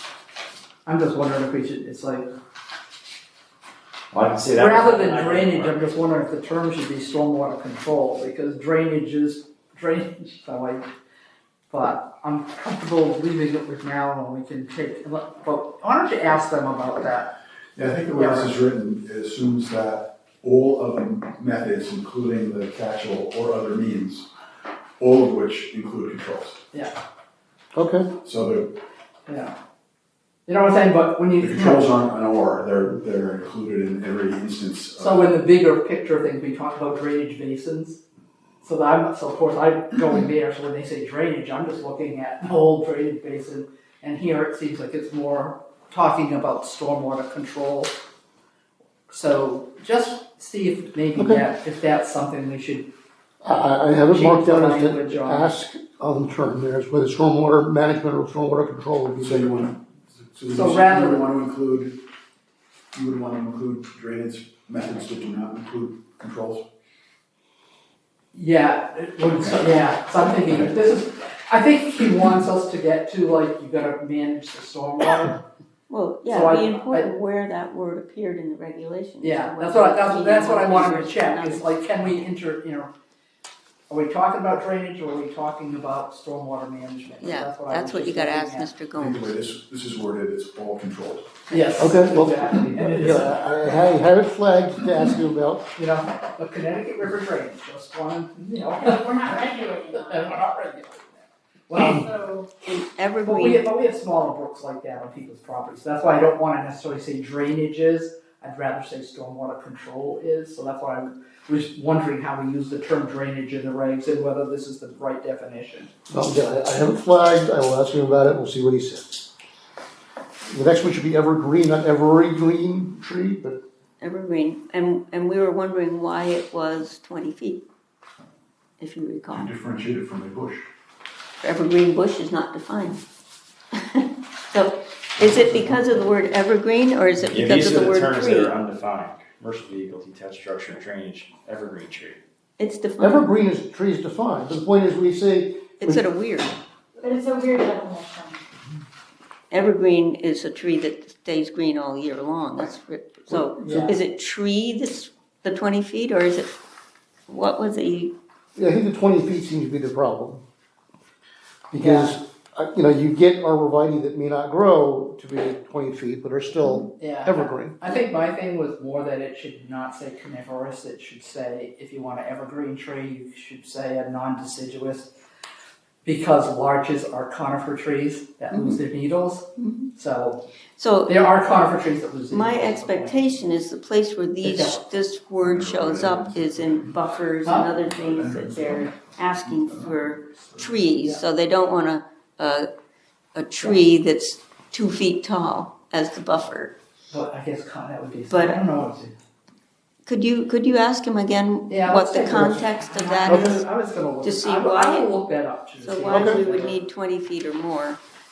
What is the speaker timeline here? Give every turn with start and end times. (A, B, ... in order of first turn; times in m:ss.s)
0:00.8-0:02.3 A
0:04.1-0:05.9 B
0:04.6-0:10.9 A
0:11.7-0:17.3 A
0:17.8-0:24.3 C
0:18.1-0:18.5 A
0:25.0-0:26.6 C
0:27.7-0:28.1 D
0:28.2-0:28.7 C
0:29.3-0:29.5 A
0:30.5-0:31.9 A
0:31.4-0:35.3 C
0:35.0-0:38.0 A
0:38.6-0:48.0 A
0:49.1-0:52.9 A
0:51.2-0:51.4 D
0:53.4-0:59.5 D
0:54.1-0:55.5 A
0:59.2-1:01.9 C
1:00.5-1:01.2 A
1:02.9-1:06.6 C
1:08.3-1:15.4 A
1:15.9-1:22.2 E
1:16.3-1:17.1 A
1:19.2-1:22.9 A
1:23.9-1:28.7 A
1:27.2-1:29.3 E
1:29.0-1:31.3 C
1:31.5-1:33.4 A
1:31.8-1:35.7 D
1:35.8-1:42.1 A
1:38.7-1:40.5 F
1:41.7-1:42.5 F
1:42.6-1:43.6 E
1:43.2-1:55.9 A
1:56.1-1:59.3 D
2:00.5-2:03.6 D
2:04.0-2:07.6 E
2:08.8-2:09.5 E
2:09.3-2:10.7 C
2:11.4-2:13.0 E
2:13.8-2:18.5 E
2:17.2-2:22.2 B
2:22.6-2:23.3 E
2:23.0-2:26.0 D
2:25.8-2:26.6 E
2:27.0-2:28.4 F
2:29.5-2:36.5 E
2:33.3-2:33.9 D
2:33.6-2:33.9 A
2:37.3-2:38.1 E
2:38.6-2:40.4 D
2:41.7-2:47.9 D
2:41.8-2:42.1 A
2:47.0-2:55.1 A
2:56.0-3:00.4 A
2:58.5-2:58.8 E
2:59.6-2:59.9 E
3:00.8-3:01.2 E
3:01.1-3:03.2 A
3:02.3-3:12.7 E
3:04.4-3:04.8 A
3:05.4-3:07.0 C
3:07.8-3:10.7 C
3:13.3-3:16.7 E
3:17.1-3:19.1 A
3:18.3-3:18.6 E
3:20.0-3:23.6 E
3:21.7-3:26.8 A
3:23.2-3:23.6 D
3:24.2-3:25.2 E
3:25.8-3:28.0 E
3:26.1-3:26.4 D